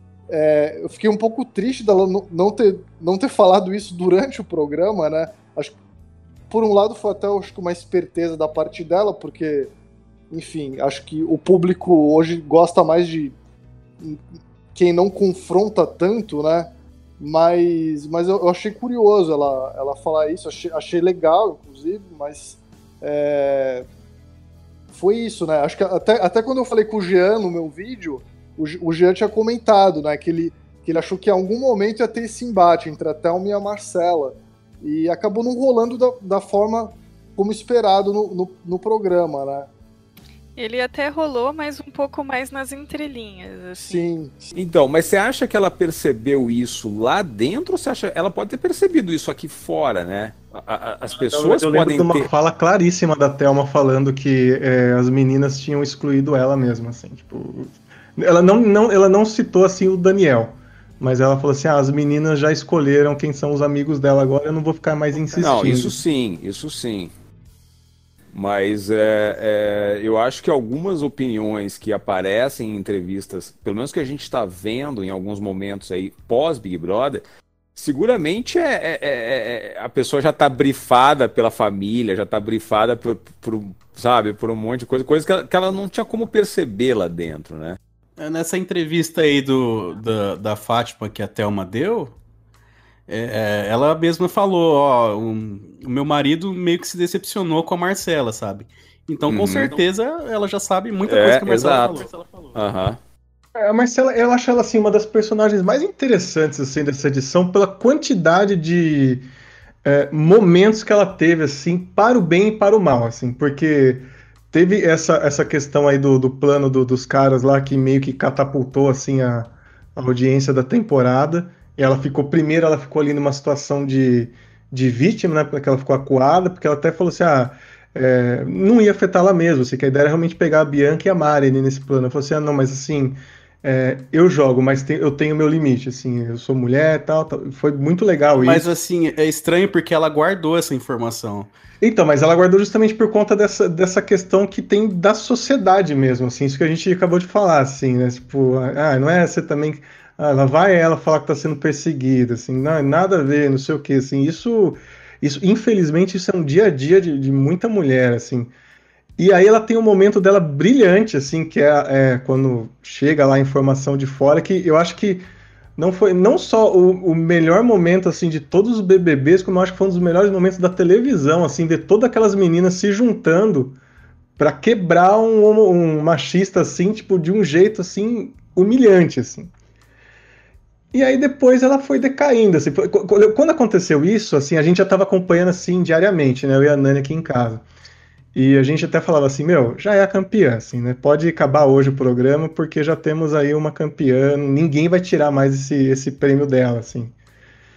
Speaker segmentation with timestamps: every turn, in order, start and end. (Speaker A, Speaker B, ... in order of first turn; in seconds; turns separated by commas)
Speaker A: 0.3-5.7, Speaker A: 6.5-9.7, Speaker A: 10.3-13.3, Speaker A: 14.7-23.9, Speaker A: 24.9-39.7, Speaker B: 40.5-44.0, Speaker A: 43.8-44.5, Speaker C: 44.5-52.3, Speaker D: 51.1-66.0, Speaker C: 65.3-67.1, Speaker C: 68.3-77.2, Speaker C: 77.7-87.8, Speaker E: 88.2-92.1, Speaker E: 93.1-102.6, Speaker C: 99.3-99.8, Speaker C: 101.0-102.0, Speaker C: 102.5-103.0, Speaker D: 103.6-109.2, Speaker D: 109.8-138.7, Speaker E: 138.3-141.5, Speaker D: 141.8-158.5, Speaker D: 159.2-173.8, Speaker D: 174.4-179.5, Speaker D: 180.9-187.6, Speaker D: 188.3-197.1